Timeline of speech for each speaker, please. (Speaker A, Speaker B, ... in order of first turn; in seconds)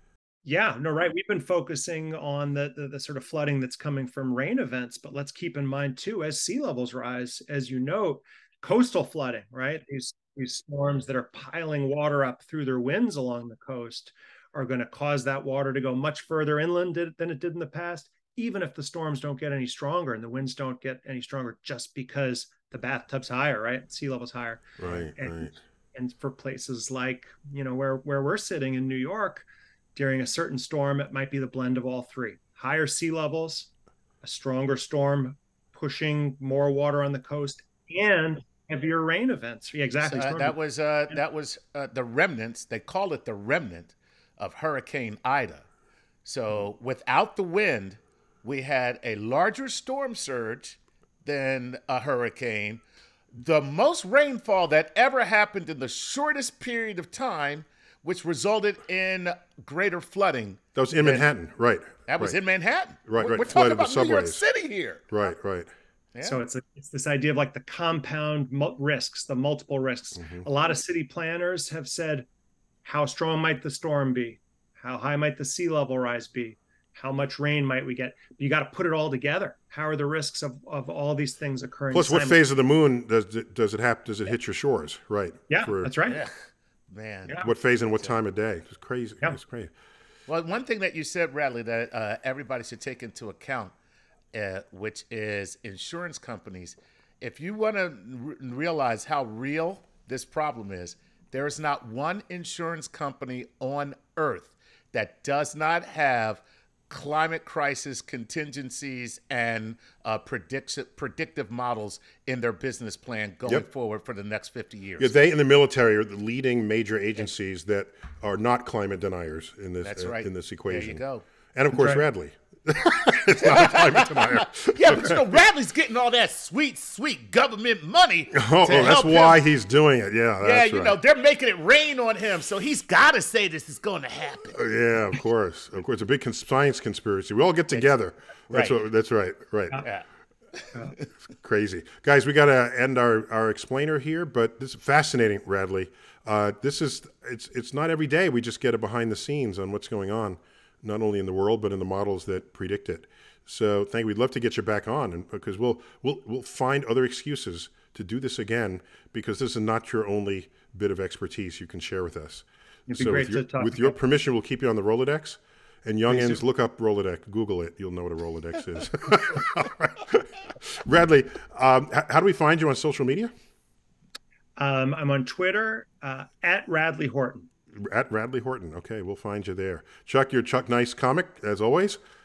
Speaker A: 0.4-33.7, 34.2-40.6, 66.2-72.3, 72.8-82.4, 85.5-86.2, 121.7-122.0, 162.9-164.0, 166.1-166.4, 174.6-177.5
Speaker B: 24.8-25.6, 60.8-62.4, 63.0-64.4, 65.1-65.7, 70.2-70.5, 81.9-85.9, 87.4-89.7, 115.0-125.2, 128.3-131.0, 134.5-139.8, 141.4-173.3, 177.8-182.0
Speaker C: 40.0-45.7, 46.2-52.8, 53.3-61.3, 62.1-65.2, 66.1-66.4, 86.1-86.3, 86.9-87.5, 90.3-93.7, 94.3-115.1, 119.8-121.2, 123.5-129.4, 130.4-134.6, 138.5-138.8, 139.8-140.1, 140.6-141.0